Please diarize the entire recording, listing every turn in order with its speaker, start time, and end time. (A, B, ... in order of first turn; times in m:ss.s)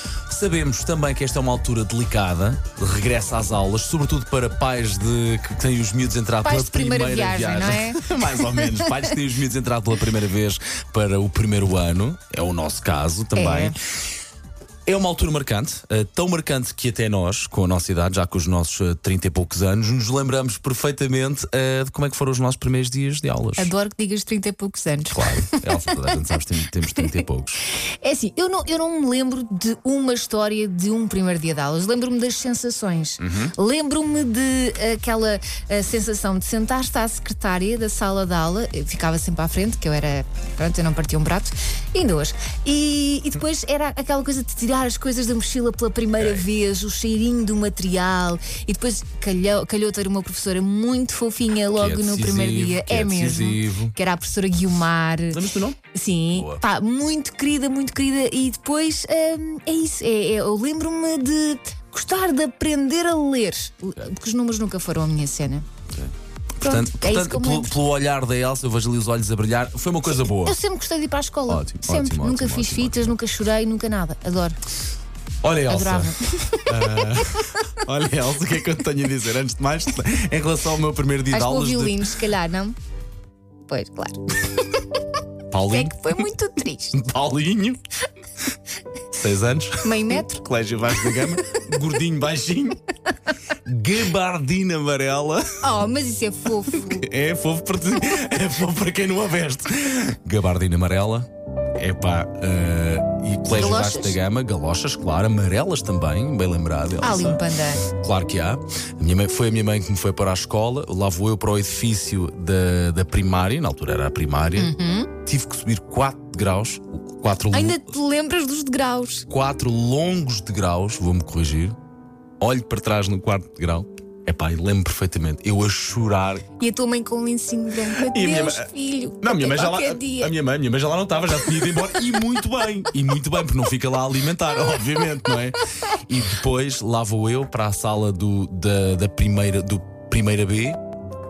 0:00.3-0:13.8 A
0:06.4-0:09.1 B
0:13.4-0:13.8 B
0:14.9-0:23.7 A
0:23.6-0:26.2 B
0:25.1-0:27.6 A
0:27.8-0:55.4 B
0:33.2-0:33.6 A
0:46.2-0:46.4 A
0:51.7-0:54.0 A
0:55.3-0:56.6 A
0:55.9-1:05.7 B
1:05.9-1:10.6 A
1:06.6-1:07.8 B
1:10.1-1:14.6 B
1:11.5-1:13.2 A
1:15.4-1:22.2 A
1:15.7-1:17.2 B
1:21.3-1:22.8 B
1:23.7-1:24.2 B
1:25.5-1:26.0 A
1:25.6-1:27.0 B
1:26.9-1:27.8 A
1:29.1-1:32.8 A
1:29.8-1:30.4 B
1:33.6-1:35.6 A
1:35.6-1:37.1 B
1:36.7-1:57.9 A
1:43.5-1:44.2 B
1:47.0-1:47.9 B
1:54.6-1:55.1 B
1:57.5-1:59.3 B
1:59.3-2:01.8 A
2:02.4-2:06.5 A
2:06.6-2:10.3 B
2:07.9-2:08.7 A
2:09.2-2:20.8 A